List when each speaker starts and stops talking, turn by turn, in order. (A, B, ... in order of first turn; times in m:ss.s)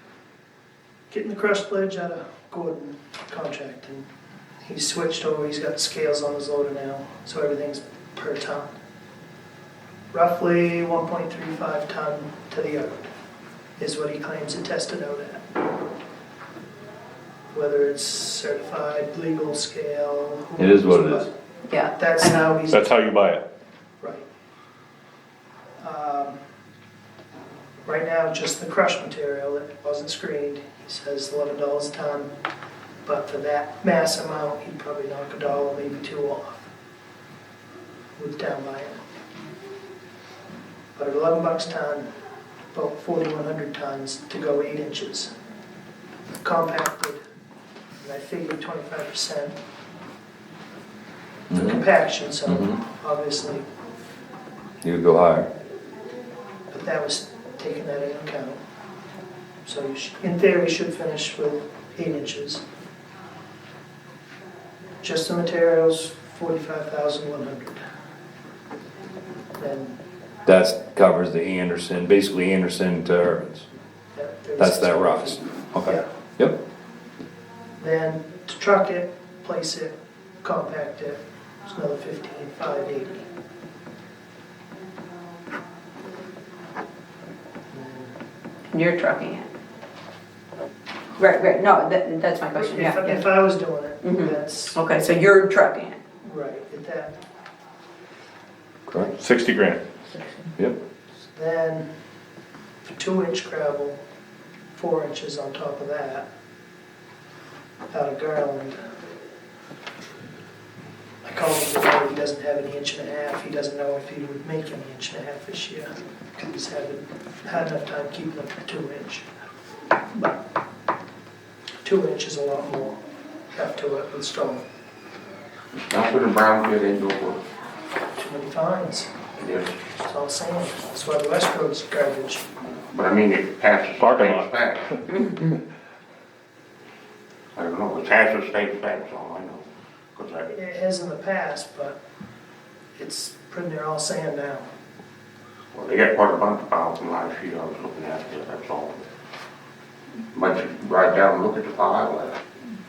0:01.1-0:04.0 A
0:04.6-0:08.7 A
0:10.1-0:13.1 A
0:13.8-0:15.4 A
0:17.5-0:21.3 A
0:20.6-0:21.3 B
0:21.7-0:22.5 C
0:21.9-0:22.9 A
0:22.7-0:23.4 D
0:24.0-0:24.2 A
0:25.8-0:26.4 A
0:27.8-0:32.3 A
0:33.0-0:36.7 A
0:38.2-0:39.0 A
0:40.9-0:42.1 A
0:42.7-0:45.3 A
0:46.4-0:47.2 A
0:48.0-0:49.5 A
0:51.5-0:51.8 B
0:51.5-0:53.6 A
0:52.5-0:52.7 B
0:54.8-0:55.5 B
0:56.7-0:58.6 A
0:59.6-1:02.6 A
1:05.0-1:07.8 A
1:09.6-1:10.0 A
1:10.4-1:13.7 B
1:14.1-1:16.1 A
1:14.6-1:16.6 B
1:17.8-1:23.2 A
1:27.7-1:28.1 A
1:28.7-1:29.5 C
1:31.2-1:33.3 C
1:32.5-1:34.8 A
1:34.0-1:36.0 C
1:36.2-1:37.1 A
1:39.1-1:39.8 D
1:41.3-1:41.9 A
1:42.8-1:44.0 A
1:44.7-1:46.3 A
1:47.9-1:48.8 A
1:51.2-1:59.3 A
2:00.1-2:00.4 A
2:01.8-2:03.0 A
2:03.5-2:04.6 A
2:05.7-2:07.4 E
2:08.2-2:09.1 A
2:09.4-2:09.8 E
2:10.0-2:12.4 A
2:12.7-2:15.0 E
2:14.0-2:14.5 D
2:17.5-2:20.5 E
2:20.5-2:22.0 A
2:23.0-2:24.7 A
2:25.7-2:29.0 E
2:30.3-2:32.4 E